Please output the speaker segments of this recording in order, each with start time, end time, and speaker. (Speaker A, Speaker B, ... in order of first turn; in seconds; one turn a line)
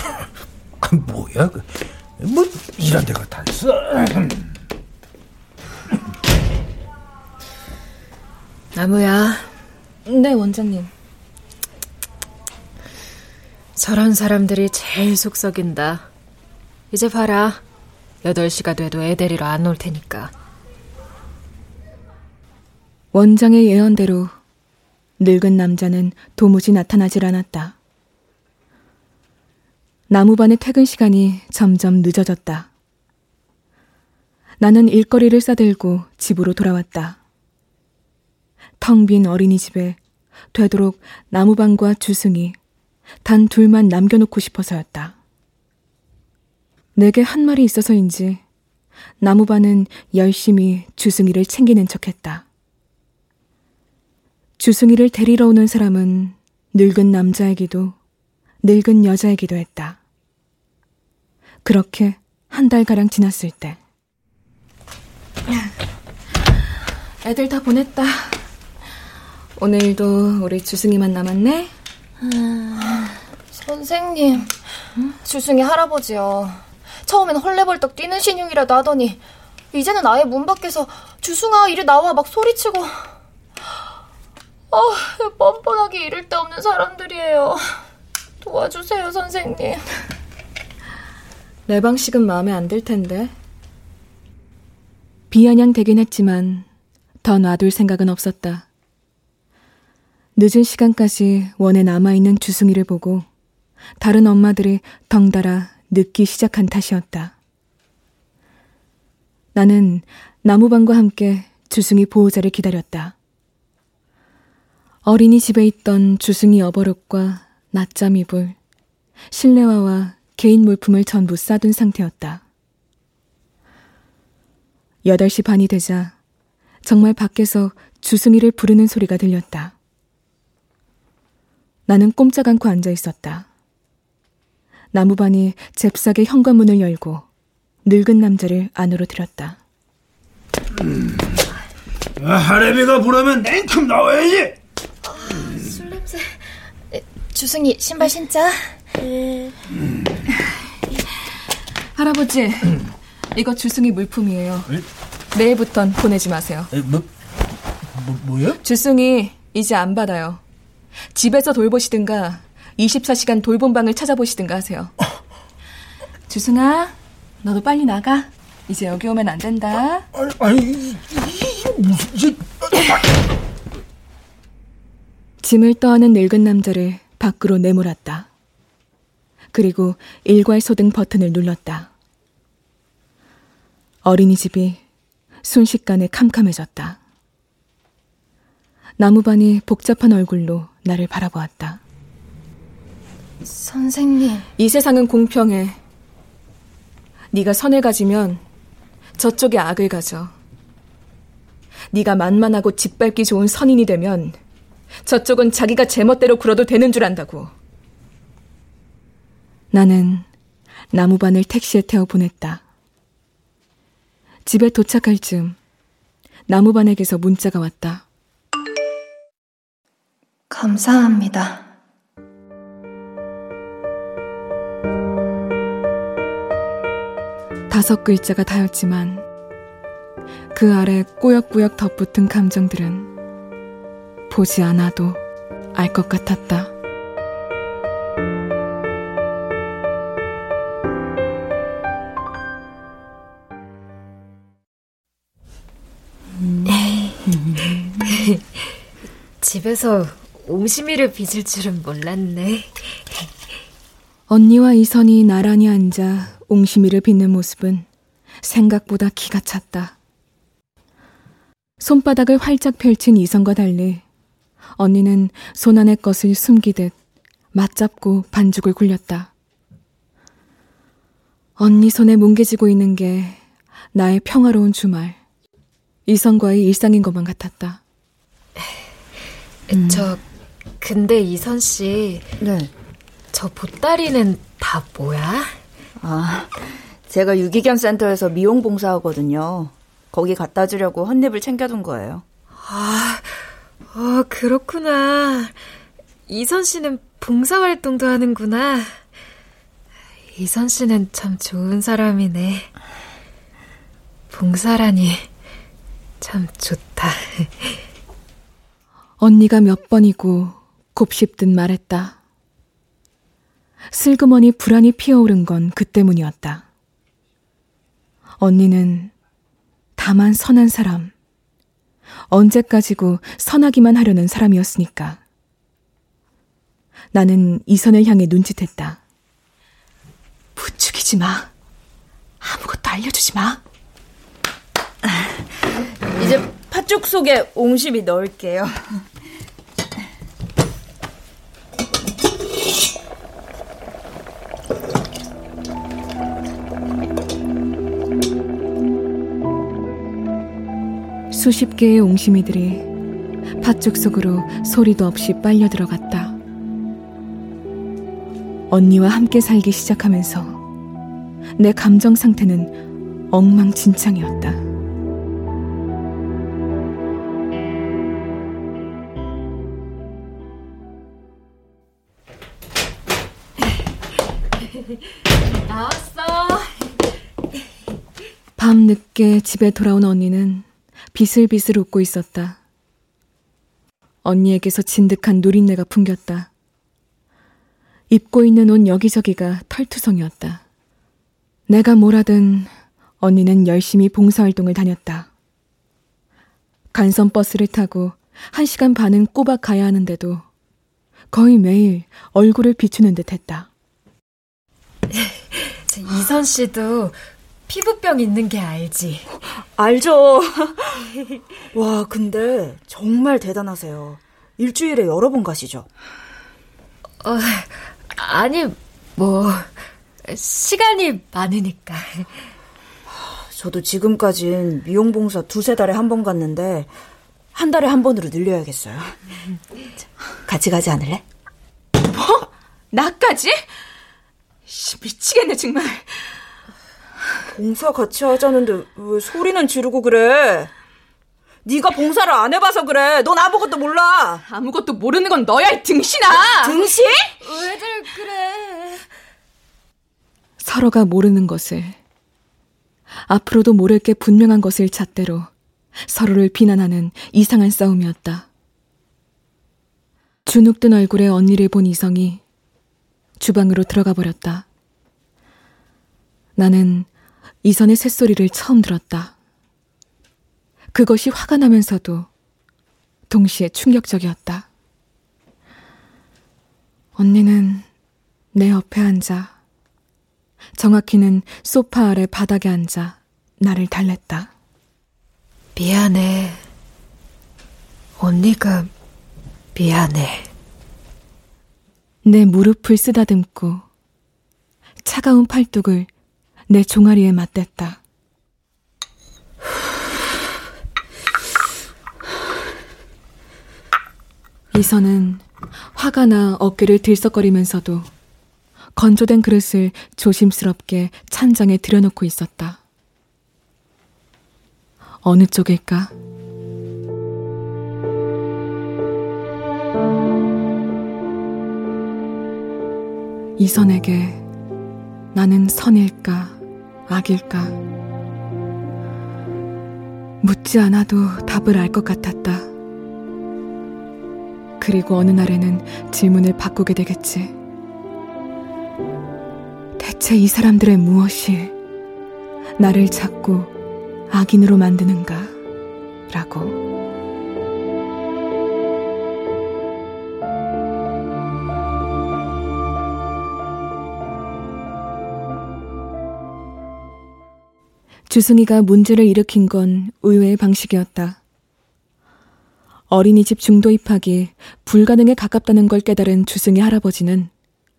Speaker A: 0.8-1.7
Speaker A: 2.2-4.4
Speaker B: 8.7-9.5
Speaker C: 10.0-10.9
Speaker B: 13.8-16.1
Speaker B: 16.9-17.6
Speaker B: 18.2-20.3
Speaker C: 23.1-24.3
Speaker C: 25.2-27.8
Speaker C: 30.1-32.7
Speaker C: 34.6-37.2
Speaker C: 38.8-40.0
Speaker C: 40.5-42.5
Speaker C: 43.2-45.1
Speaker C: 46.9-48.4
Speaker C: 49.2-52.4
Speaker C: 54.6-58.0
Speaker C: 58.6-60.0
Speaker C: 61.6-63.8
Speaker C: 67.2-68.4
Speaker C: 69.6-71.7
Speaker D: 72.5-74.5
Speaker D: 75.2-79.2
Speaker D: 79.7-83.1
Speaker D: 84.7-87.8
Speaker D: 88.4-89.8
Speaker C: 91.7-93.3
Speaker C: 95.3-96.7
Speaker C: 97.2-98.7
Speaker C: 100.3-103.2
Speaker C: 104.0-107.3
Speaker C: 109.5-113.1
Speaker C: 115.0-118.5
Speaker C: 119.3-122.4
Speaker C: 125.0-126.1
Speaker C: 126.8-129.7
Speaker C: 131.9-133.5
Speaker C: 134.9-137.2
Speaker C: 137.8-139.6
Speaker A: 142.2-144.6
Speaker D: 145.0-148.8
Speaker C: 151.9-152.8
Speaker C: 153.3-154.7
Speaker C: 155.3-156.7
Speaker A: 156.7-157.1
Speaker A: 157.9-158.6
Speaker C: 158.6-160.4
Speaker C: 161.1-164.9
Speaker C: 166.3-170.1
Speaker A: 170.2-172.9
Speaker C: 175.4-178.3
Speaker C: 179.5-181.9
Speaker C: 184.0-184.8
Speaker C: 185.4-187.0
Speaker C: 189.0-191.8
Speaker D: 193.4-194.5
Speaker C: 194.6-195.8
Speaker C: 197.3-198.4
Speaker C: 199.2-200.3
Speaker C: 201.9-204.4
Speaker C: 205.0-207.5
Speaker C: 209.7-210.3
Speaker C: 210.9-212.6
Speaker C: 214.4-215.6
Speaker C: 216.5-218.0
Speaker D: 220.5-221.6
Speaker C: 227.7-229.2
Speaker C: 230.5-233.1
Speaker C: 234.3-235.2
Speaker C: 235.7-236.7
Speaker E: 246.4-248.3
Speaker B: 246.7-247.1
Speaker B: 249.4-253.3
Speaker C: 254.3-257.9
Speaker C: 258.4-259.9
Speaker C: 261.8-264.0
Speaker C: 264.8-266.9
Speaker C: 267.5-269.3
Speaker C: 271.6-273.4
Speaker C: 273.9-275.2
Speaker C: 276.1-277.8
Speaker B: 279.7-280.2
Speaker E: 279.7-280.1
Speaker B: 280.8-282.3
Speaker E: 282.4-282.7
Speaker B: 283.3-285.5
Speaker E: 286.0-292.2
Speaker B: 292.6-293.4
Speaker B: 293.9-295.6
Speaker B: 296.3-299.0
Speaker B: 300.3-302.7
Speaker B: 304.3-305.3
Speaker B: 306.2-307.8
Speaker C: 309.2-312.2
Speaker C: 313.9-316.6
Speaker C: 318.4-319.1
Speaker C: 320.0-321.1
Speaker C: 322.3-325.2
Speaker C: 327.1-329.0
Speaker C: 330.6-331.5
Speaker C: 332.4-333.6
Speaker E: 336.1-339.0
Speaker C: 351.3-352.9
Speaker C: 353.6-356.4
Speaker C: 358.7-360.6
Speaker C: 361.6-362.7
Speaker C: 363.3-364.6
Speaker B: 375.7-376.7
Speaker C: 378.6-382.6
Speaker C: 384.2-386.5
Speaker C: 388.1-390.6
Speaker C: 391.7-395.3
Speaker C: 396.9-400.4
Speaker C: 401.3-403.7
Speaker B: 405.1-409.3
Speaker E: 409.8-410.9
Speaker E: 411.7-415.9
Speaker B: 417.2-422.4
Speaker E: 423.2-426.9
Speaker E: 427.5-429.2
Speaker E: 430.4-431.2
Speaker C: 432.1-433.6
Speaker C: 434.7-436.2
Speaker E: 437.5-440.7
Speaker E: 441.6-444.4
Speaker C: 444.4-446.8
Speaker E: 446.6-447.4
Speaker D: 447.7-449.0
Speaker C: 450.6-452.0
Speaker C: 453.3-455.5
Speaker C: 456.0-458.5
Speaker C: 460.4-462.4
Speaker C: 463.4-464.7
Speaker C: 466.6-467.1
Speaker C: 467.6-469.3
Speaker C: 470.9-472.3
Speaker C: 473.3-474.7
Speaker C: 477.1-477.9
Speaker C: 478.5-479.5
Speaker C: 480.8-484.5
Speaker B: 485.8-486.6
Speaker B: 488.2-488.9
Speaker B: 489.7-490.5
Speaker C: 492.2-493.8
Speaker C: 495.0-496.1
Speaker C: 496.7-498.0
Speaker C: 504.7-505.4
Speaker C: 505.9-508.1
Speaker C: 508.9-512.8
Speaker C: 515.2-516.1
Speaker C: 523.6-524.4
Speaker C: 525.3-526.6
Speaker C: 527.1-527.8
Speaker C: 530.4-532.7
Speaker C: 534.8-537.5
Speaker C: 540.0-541.7
Speaker C: 542.8-543.7
Speaker C: 544.3-545.6
Speaker C: 546.3-546.8
Speaker C: 558.3-561.4
Speaker C: 563.1-567.5